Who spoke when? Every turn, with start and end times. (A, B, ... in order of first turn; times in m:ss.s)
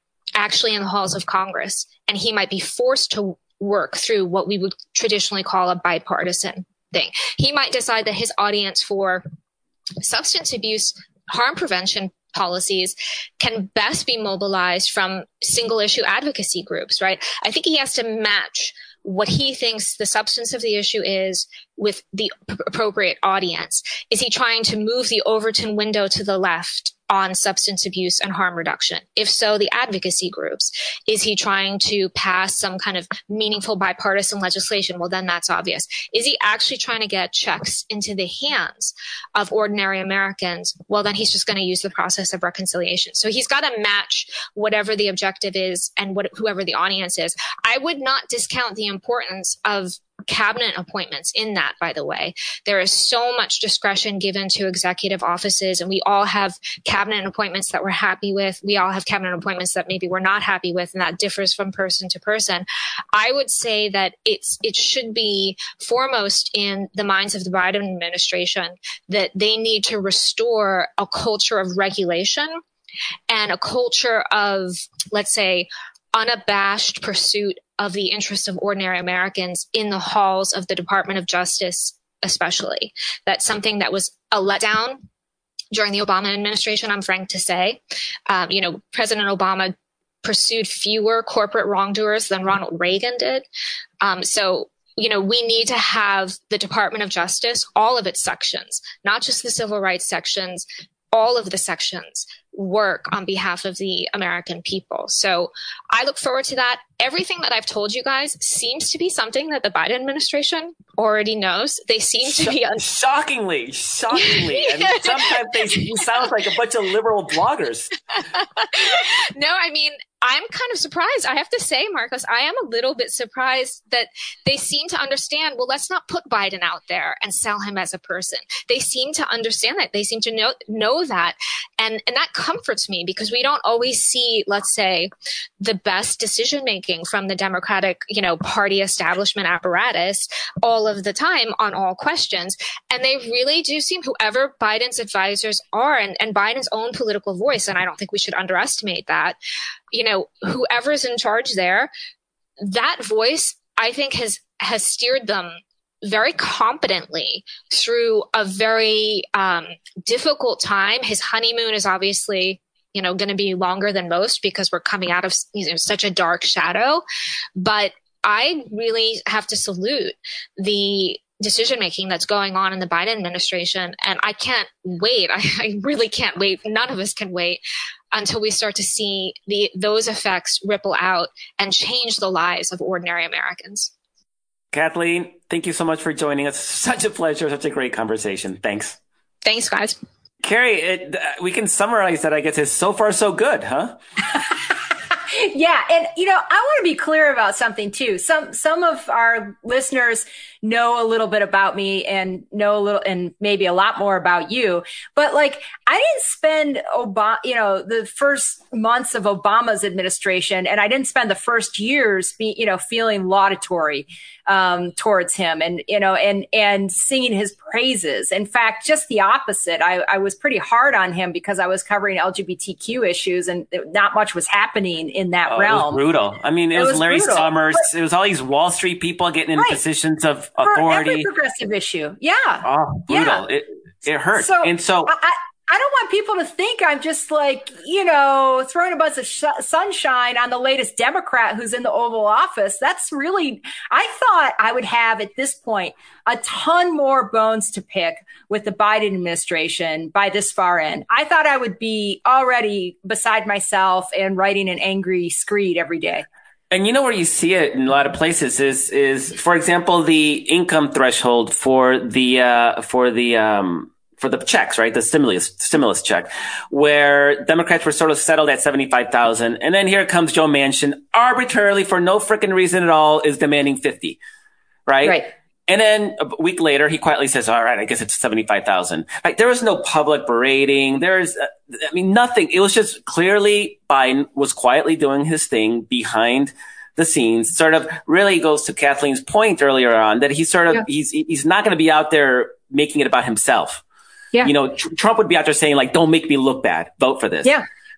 0:00.4-0:09.2 A
0:10.0-1:12.6 A
1:13.3-1:25.0 A
1:25.7-1:29.7 A
1:30.2-1:33.4 A
1:34.0-1:52.8 A
1:52.2-1:57.9 B
1:54.2-1:55.2 A
1:55.7-1:56.0 A
1:58.3-2:15.1 A
2:15.6-2:29.4 A
2:29.9-2:31.9 A
2:32.6-2:47.0 A
2:47.6-2:57.6 A
2:58.1-3:03.9 A
3:04.7-3:09.0 B
3:09.4-3:10.0 A
3:10.4-3:14.0 B
3:15.1-3:46.0 C
3:45.5-3:51.3 B
3:46.7-3:47.8 C
3:50.6-3:53.4 C
3:52.6-3:55.1 B
3:54.4-4:16.2 C
4:16.7-4:34.2 B
4:34.9-4:53.8 B
4:54.4-4:57.5 B